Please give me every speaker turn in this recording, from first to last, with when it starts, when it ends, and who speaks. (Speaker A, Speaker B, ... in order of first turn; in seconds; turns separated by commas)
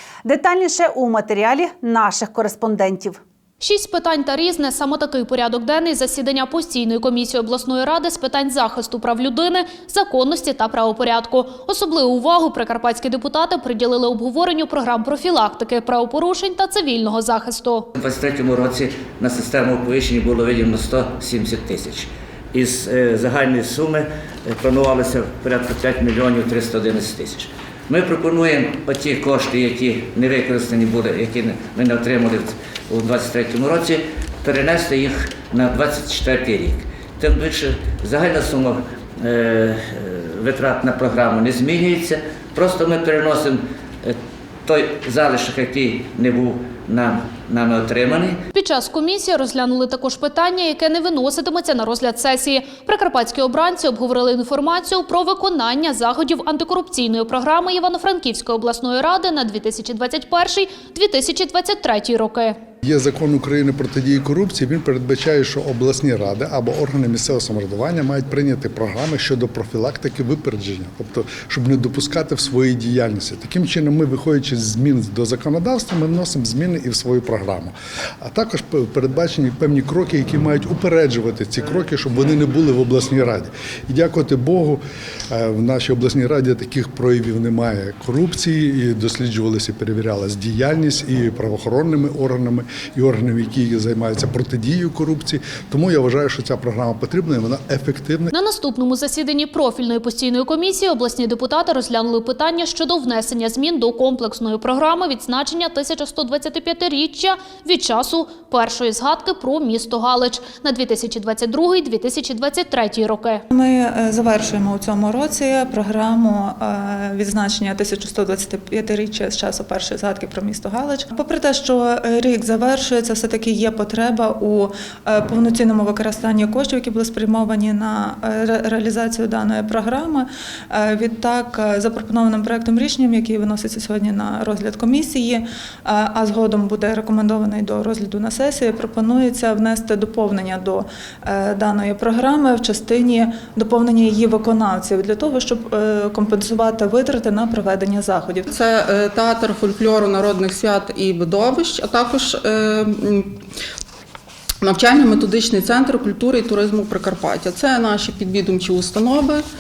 Speaker A: 0.2-3.2, Speaker B: 3.6-17.9, Speaker C: 17.9-48.4, Speaker B: 48.5-62.6, Speaker D: 62.8-98.3, Speaker B: 98.3-113.4, Speaker E: 113.5-148.5, Speaker F: 148.5-153.3, Speaker F: 154.6-159.4